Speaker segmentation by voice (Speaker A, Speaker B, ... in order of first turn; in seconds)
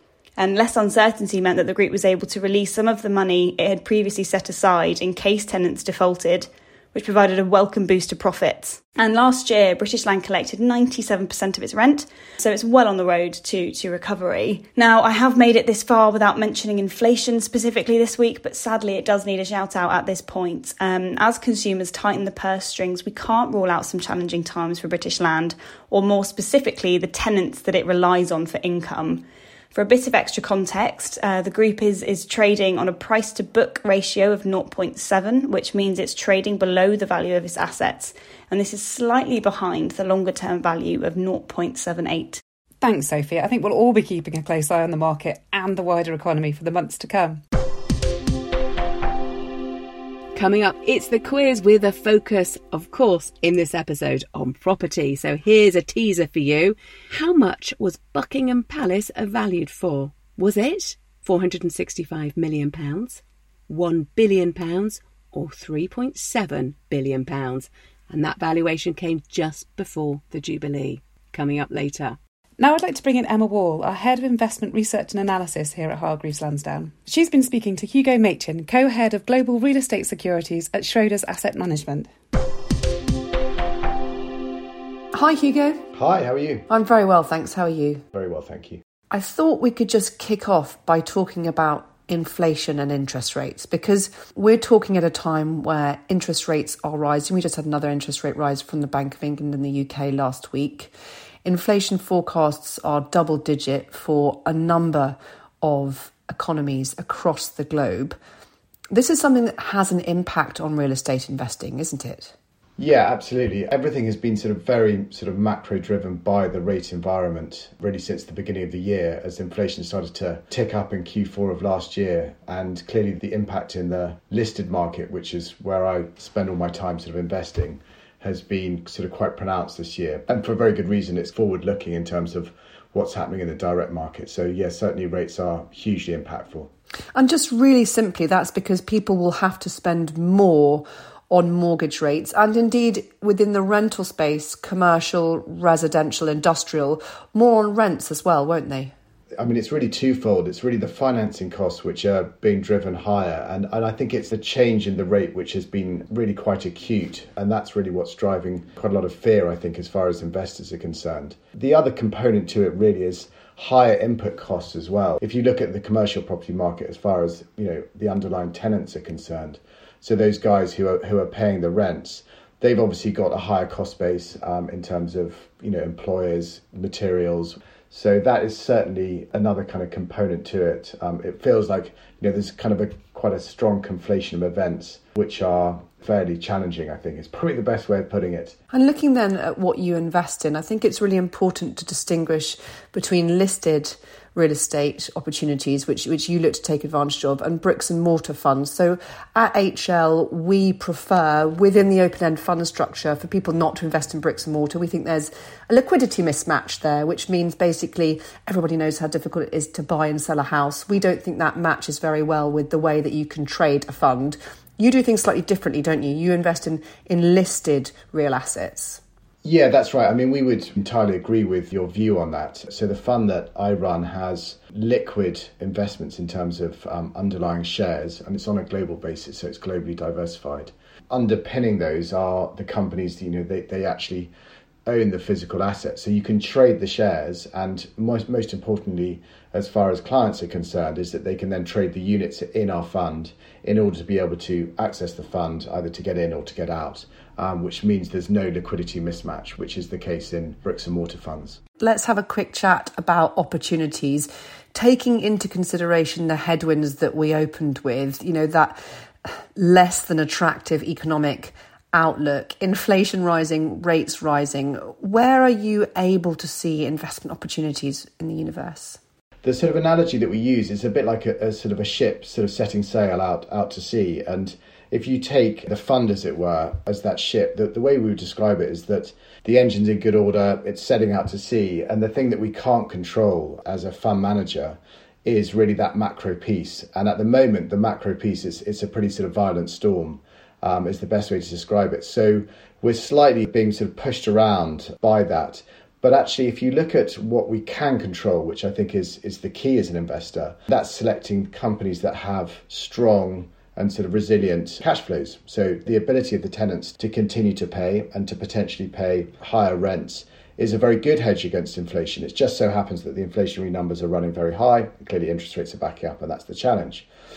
Speaker A: 0.4-42.4
Speaker B: 42.8-47.4, 72.6-82.1
Speaker C: 50.4-72.2
Speaker D: 85.1-85.8, 86.7-88.0, 89.1-100.9, 101.4-108.2, 108.9-112.3, 137.2-148.9, 188.7-219.0, 251.8-269.0
Speaker E: 85.9-86.7, 88.1-88.8, 112.8-136.7, 149.4-188.6, 219.4-234.3, 234.9-251.6, 269.4-317.1